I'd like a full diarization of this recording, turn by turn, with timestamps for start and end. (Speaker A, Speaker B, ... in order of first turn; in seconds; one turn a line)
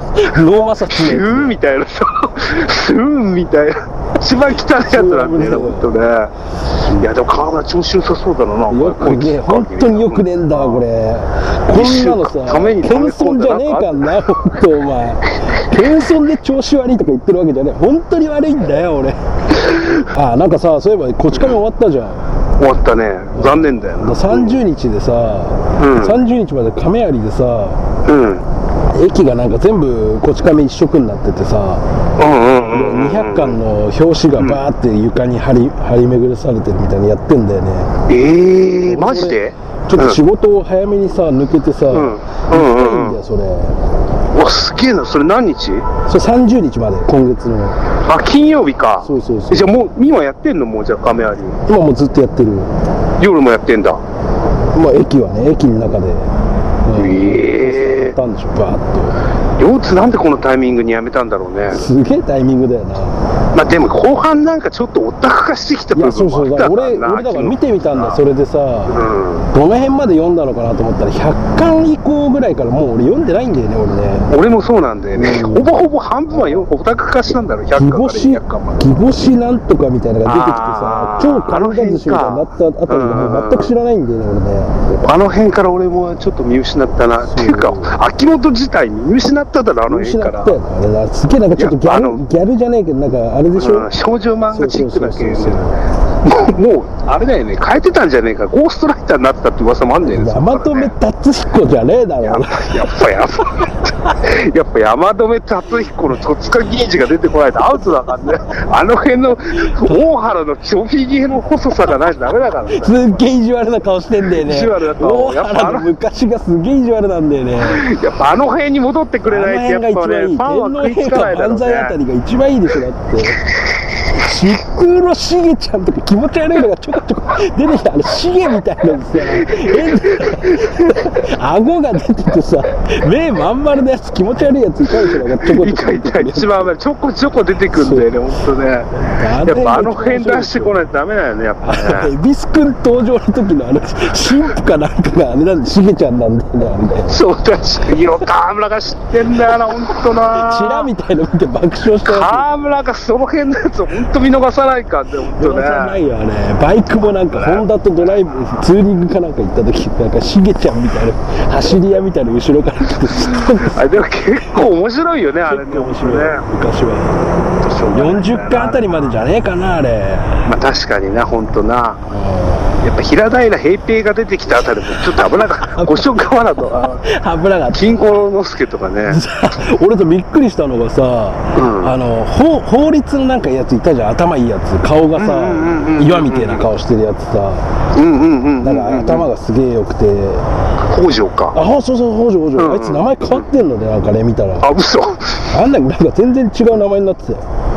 Speaker A: 0.1-1.6
Speaker B: 0.9-6.3
Speaker A: 4.8-5.9
Speaker B: 6.9-10.8
Speaker A: 8.7-22.3
Speaker B: 11.7-14.3
Speaker B: 22.6-24.6
Speaker A: 23.3-27.8
Speaker B: 25.8-26.2
Speaker B: 28.0-28.4
Speaker A: 28.9-31.8
Speaker B: 32.2-33.6
Speaker A: 32.7-37.9
Speaker B: 34.4-34.6
Speaker B: 38.1-40.2
Speaker A: 38.9-43.8
Speaker B: 41.9-43.2
Speaker B: 44.3-45.9
Speaker A: 46.0-47.8
Speaker B: 48.0-51.6
Speaker A: 49.0-49.7
Speaker A: 51.7-52.7
Speaker B: 53.2-54.0
Speaker A: 54.7-56.3
Speaker A: 56.8-59.2
Speaker B: 57.0-58.1
Speaker B: 59.6-61.9
Speaker A: 61.7-63.2
Speaker B: 63.5-68.2
Speaker A: 65.9-69.0
Speaker B: 68.9-69.5
Speaker A: 69.5-74.3
Speaker B: 74.3-78.8
Speaker A: 75.1-75.7
Speaker A: 76.3-76.6
Speaker A: 77.8-84.7
Speaker B: 80.2-83.7
Speaker B: 84.9-90.6
Speaker A: 87.3-88.0
Speaker A: 89.9-93.9
Speaker B: 91.5-92.2
Speaker B: 93.5-95.7
Speaker A: 94.5-95.8
Speaker B: 96.2-100.9
Speaker A: 100.1-102.9
Speaker B: 102.2-113.2
Speaker A: 109.7-110.0
Speaker A: 112.7-117.9
Speaker B: 114.2-115.9
Speaker B: 117.6-121.9
Speaker A: 119.2-123.4
Speaker A: 124.1-136.7
Speaker B: 129.2-131.0
Speaker B: 135.1-138.9
Speaker A: 137.7-138.1
Speaker A: 139.0-140.8
Speaker B: 139.4-142.1
Speaker A: 141.6-147.2
Speaker B: 147.1-150.9
Speaker A: 150.3-152.4
Speaker B: 152.1-156.0
Speaker A: 155.4-163.8
Speaker B: 157.3-158.3
Speaker B: 163.4-166.4
Speaker A: 165.5-167.3
Speaker B: 167.6-169.1
Speaker A: 167.9-170.4
Speaker B: 170.4-172.0
Speaker A: 172.1-172.8
Speaker B: 172.8-177.0
Speaker A: 175.6-176.1
Speaker A: 177.0-178.0
Speaker B: 177.7-179.2
Speaker A: 179.1-187.7
Speaker B: 181.5-181.9
Speaker B: 185.2-186.6
Speaker B: 187.9-189.3
Speaker A: 188.6-190.4
Speaker B: 190.9-191.6
Speaker A: 191.5-194.7
Speaker B: 192.6-193.5
Speaker B: 194.6-195.4
Speaker A: 195.5-197.4